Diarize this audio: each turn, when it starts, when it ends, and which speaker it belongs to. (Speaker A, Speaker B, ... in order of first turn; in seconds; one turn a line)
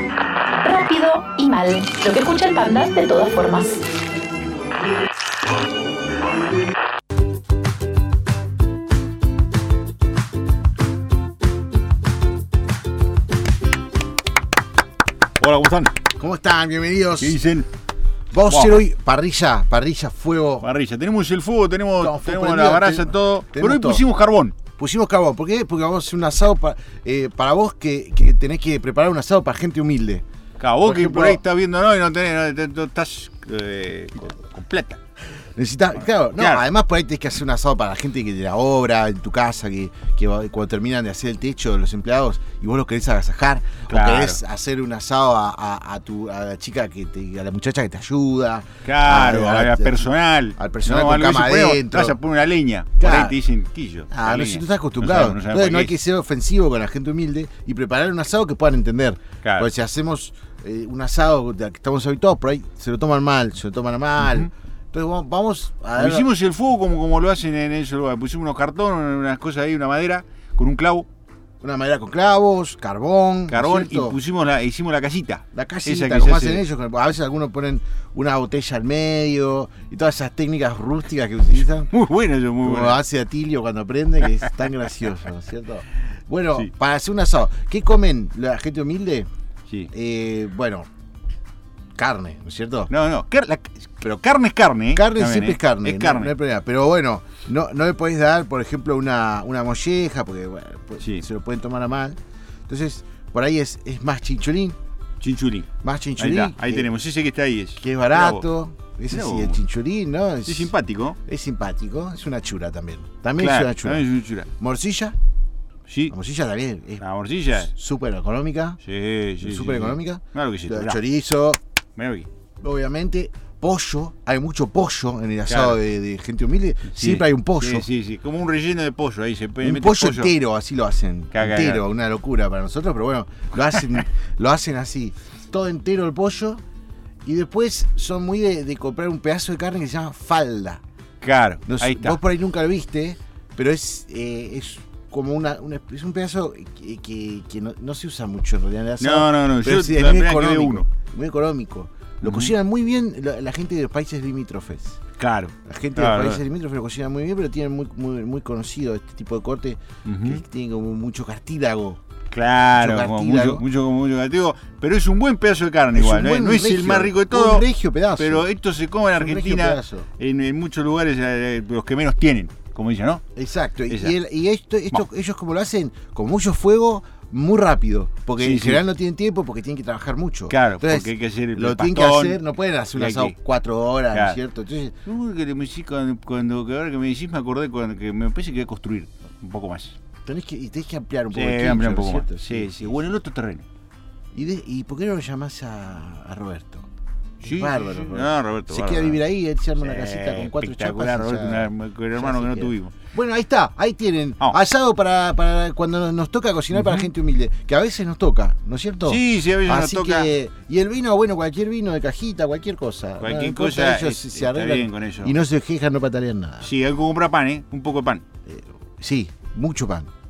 Speaker A: 0.6-3.8
Speaker B: 15.4-15.9
Speaker C: 16.1-17.4
Speaker B: 17.2-17.7
Speaker C: 18.3-20.7
Speaker B: 18.5-18.8
Speaker B: 20.6-24.6
Speaker C: 22.0-24.0
Speaker C: 24.8-30.2
Speaker B: 30.6-35.0
Speaker C: 30.8-31.4
Speaker C: 35.5-52.2
Speaker B: 36.4-36.6
Speaker B: 43.9-44.4
Speaker B: 48.8-55.9
Speaker C: 53.0-53.4
Speaker C: 54.1-66.3
Speaker B: 59.4-59.7
Speaker B: 64.2-64.5
Speaker B: 66.0-71.1
Speaker C: 71.6-74.2
Speaker B: 73.5-76.6
Speaker C: 75.5-81.9
Speaker B: 81.9-83.0
Speaker C: 82.6-89.3
Speaker C: 89.9-90.9
Speaker C: 92.0-92.9
Speaker B: 92.9-96.3
Speaker C: 94.9-104.8
Speaker B: 101.0-101.2
Speaker B: 105.2-108.4
Speaker C: 105.8-106.9
Speaker C: 107.8-110.7
Speaker B: 109.1-109.6
Speaker B: 110.5-111.2
Speaker C: 111.2-115.2
Speaker B: 113.4-114.5
Speaker B: 115.9-116.1
Speaker C: 116.1-118.8
Speaker B: 117.0-117.7
Speaker B: 118.8-121.0
Speaker C: 119.4-121.6
Speaker B: 122.0-122.3
Speaker C: 122.6-127.9
Speaker B: 125.5-125.8
Speaker B: 126.9-130.3
Speaker C: 129.6-136.6
Speaker B: 131.3-131.8
Speaker C: 137.2-140.8
Speaker B: 141.2-142.2
Speaker C: 141.7-155.0
Speaker B: 149.0-150.9
Speaker B: 152.2-152.5
Speaker B: 155.2-156.4
Speaker C: 155.6-162.0
Speaker B: 160.0-160.4
Speaker B: 162.3-173.2
Speaker C: 162.7-163.6
Speaker C: 165.9-168.4
Speaker C: 169.1-170.1
Speaker C: 173.3-184.9
Speaker B: 173.9-174.1
Speaker B: 178.4-178.8
Speaker B: 180.5-182.4
Speaker B: 182.9-183.3
Speaker B: 184.1-184.4
Speaker B: 185.0-189.9
Speaker C: 190.2-192.9
Speaker B: 191.3-193.6
Speaker C: 194.3-196.9
Speaker B: 197.4-199.2
Speaker C: 197.4-216.7
Speaker B: 199.8-203.0
Speaker B: 206.7-207.1
Speaker B: 209.0-210.3
Speaker B: 213.2-215.3
Speaker B: 216.6-218.2
Speaker C: 218.4-220.1